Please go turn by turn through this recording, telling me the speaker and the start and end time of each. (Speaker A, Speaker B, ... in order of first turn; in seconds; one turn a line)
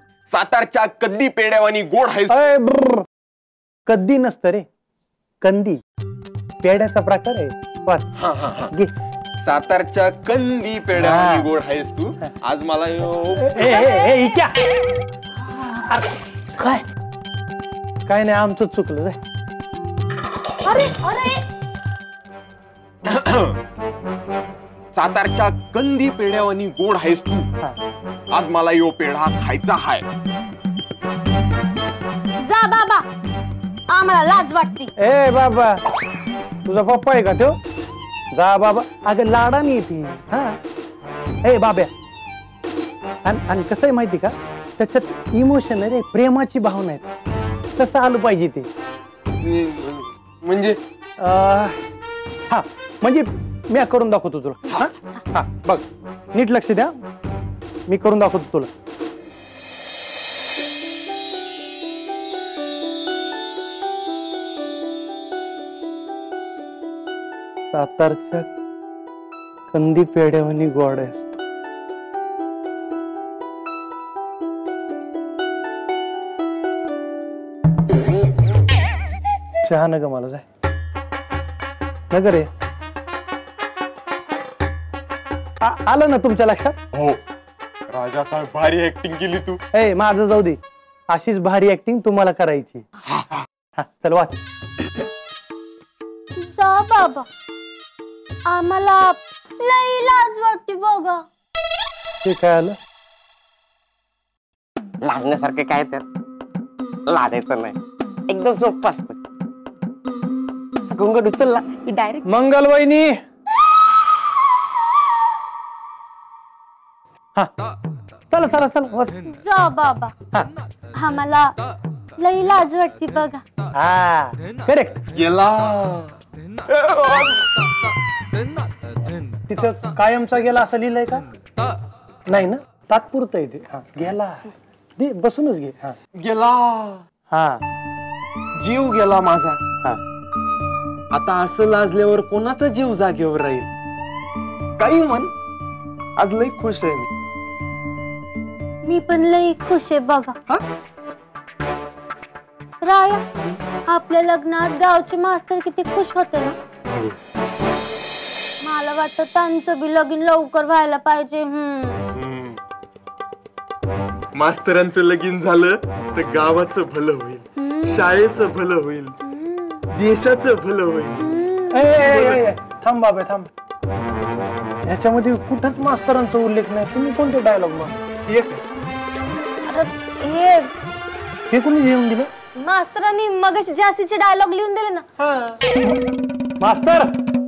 Speaker A: 0.3-2.3
Speaker B: 2.3-3.0
Speaker B: 3.9-4.6
Speaker B: 5.4-5.8
Speaker B: 6.6-8.1
Speaker A: 8.2-8.7
Speaker A: 9.4-13.7
Speaker B: 11.0-11.5
Speaker B: 13.4-14.5
Speaker C: 13.6-14.2
Speaker B: 18.1-19.2
Speaker C: 20.6-21.4
Speaker A: 23.0-23.6
Speaker A: 24.9-27.5
Speaker A: 28.3-30.1
Speaker C: 32.4-33.1
Speaker C: 33.9-34.9
Speaker B: 35.0-35.8
Speaker B: 36.6-37.6
Speaker B: 38.3-40.6
Speaker B: 41.4-41.9
Speaker B: 43.2-47.1
Speaker B: 47.8-48.7
Speaker A: 49.4-50.8
Speaker B: 51.2-51.7
Speaker B: 52.5-56.9
Speaker B: 57.9-58.7
Speaker B: 67.7-68.5
Speaker B: 69.7-71.4
Speaker B: 79.7-80.4
Speaker B: 82.1-82.5
Speaker B: 85.6-86.8
Speaker A: 86.9-87.2
Speaker A: 87.9-89.6
Speaker B: 89.7-90.6
Speaker B: 91.1-92.8
Speaker B: 93.8-94.4
Speaker C: 96.3-97.3
Speaker C: 98.5-101.2
Speaker B: 102.2-102.8
Speaker D: 105.0-106.0
Speaker D: 107.1-107.7
Speaker D: 108.3-109.2
Speaker D: 110.9-112.2
Speaker B: 112.2-113.1
Speaker B: 118.3-119.2
Speaker C: 119.4-120.1
Speaker C: 121.0-121.5
Speaker C: 122.2-123.4
Speaker B: 123.8-125.0
Speaker A: 125.2-126.1
Speaker A: 126.7-127.4
Speaker B: 129.5-131.2
Speaker B: 132.3-134.4
Speaker B: 135.0-135.9
Speaker A: 136.2-137.0
Speaker B: 137.3-137.6
Speaker A: 138.6-139.6
Speaker A: 141.1-143.7
Speaker A: 144.8-145.3
Speaker A: 146.2-147.1
Speaker C: 148.8-150.3
Speaker C: 152.8-153.2
Speaker C: 153.9-156.6
Speaker C: 158.6-162.0
Speaker A: 162.1-162.6
Speaker A: 164.3-169.1
Speaker C: 167.6-168.1
Speaker C: 169.2-169.8
Speaker A: 169.9-171.2
Speaker C: 171.2-171.9
Speaker B: 171.7-173.5
Speaker A: 172.1-172.4
Speaker B: 174.9-178.0
Speaker C: 179.6-180.7
Speaker B: 181.5-182.3
Speaker C: 182.6-185.0
Speaker B: 186.6-187.1